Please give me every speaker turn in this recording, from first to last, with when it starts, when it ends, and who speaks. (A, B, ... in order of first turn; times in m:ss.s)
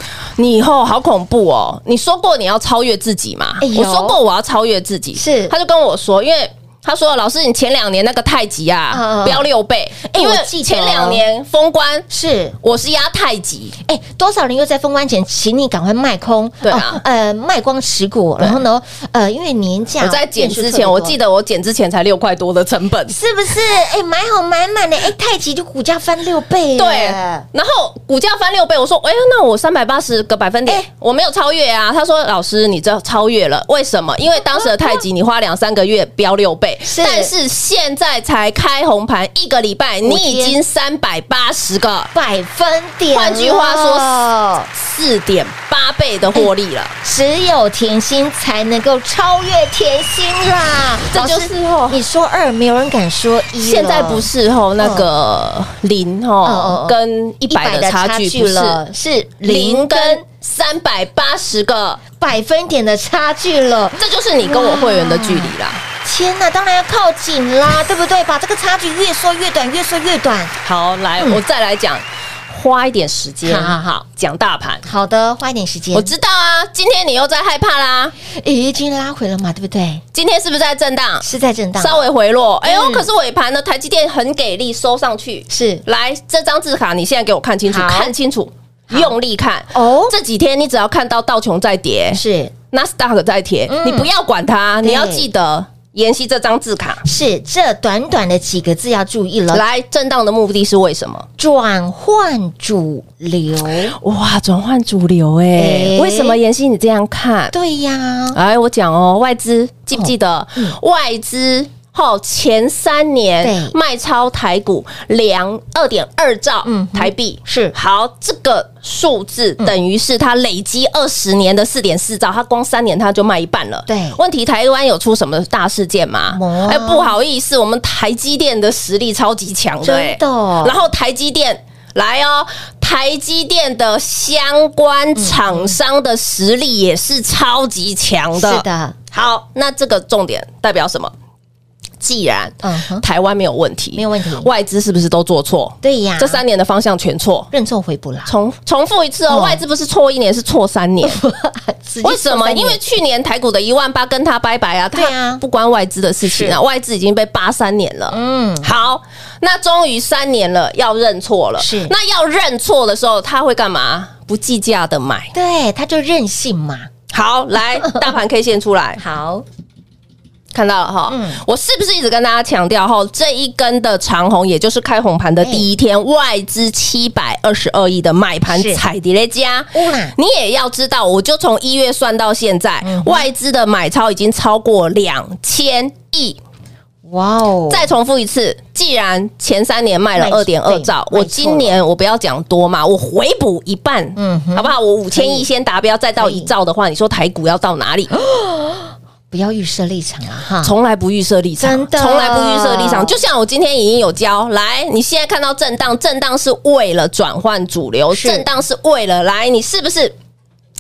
0:00.4-0:12.1 A
0:03.6-0:04.2 B
0:05.2-0:05.5 B
0:08.9-0:09.5 B
0:10.0-0:11.2 B
0:12.1-0:12.6 B
0:12.6-0:13.8 A
0:13.8-0:21.2 B
0:16.6-0:17.0 A
0:20.0-0:23.2 A
0:23.1-0:27.4 B
0:26.8-0:42.1 A
0:34.4-0:35.0 B
0:36.8-0:37.3 B
0:40.0-0:40.6 B
0:42.1-0:44.7 B
0:43.1-0:46.9 A
0:47.0-0:55.1 B
0:51.1-0:52.0 A
0:53.6-0:58.8 A
0:56.4-1:00.2 B
0:59.4-1:02.0 A
1:02.2-1:10.6 B
1:04.0-1:05.8 A
1:10.6-1:14.8 A
1:13.4-1:14.1 B
1:14.8-1:16.1 B
1:15.9-1:18.1 A
1:18.2-1:20.0 B
1:20.1-1:21.3 A
1:21.2-1:22.0 B
1:21.8-1:37.0 A
1:22.6-1:23.1 B
1:25.5-1:25.8 B
1:27.7-1:28.1 B
1:28.9-1:29.1 B
1:29.7-1:30.2 B
1:32.1-1:32.5 B
1:33.7-1:34.1 B
1:34.8-1:35.2 B
1:37.0-1:39.6 B
1:39.5-1:41.3 A
1:41.4-1:44.0 B
1:44.0-1:47.5 A
1:45.5-1:46.4 B
1:47.5-1:48.4 B
1:48.3-2:21.1 A
1:49.9-1:50.8 B
1:53.4-1:53.8 B
1:56.6-1:57.7 B
2:03.9-2:04.2 B
2:06.3-2:07.1 B
2:09.8-2:10.8 B
2:15.1-2:15.8 B
2:18.3-2:19.0 B
2:22.0-2:27.5 A
2:22.6-2:23.0 B
2:23.9-2:24.5 B
2:25.8-2:26.4 B
2:27.5-2:28.3 B
2:28.2-2:31.2 A
2:29.3-2:29.6 B
2:31.0-2:32.8 B
2:32.0-2:45.3 A
2:34.9-2:35.4 B
2:36.2-2:36.6 B
2:38.1-2:38.7 B
2:41.6-2:41.9 B
2:45.3-2:46.9 B
2:47.1-2:49.0 A
2:47.8-2:48.1 B
2:49.0-2:49.4 B
2:50.5-3:06.4 A
2:51.1-2:51.4 B
2:55.4-2:55.7 B
2:58.5-2:58.8 B
2:59.7-3:00.2 B
3:02.8-3:03.3 B
3:07.0-3:07.9 B
3:07.7-3:18.1 A
3:10.2-3:11.8 B
3:14.2-3:15.5 B
3:16.2-3:16.5 B
3:18.1-3:20.7 B
3:20.6-3:30.1 A
3:21.6-3:23.2 B
3:28.1-3:28.4 B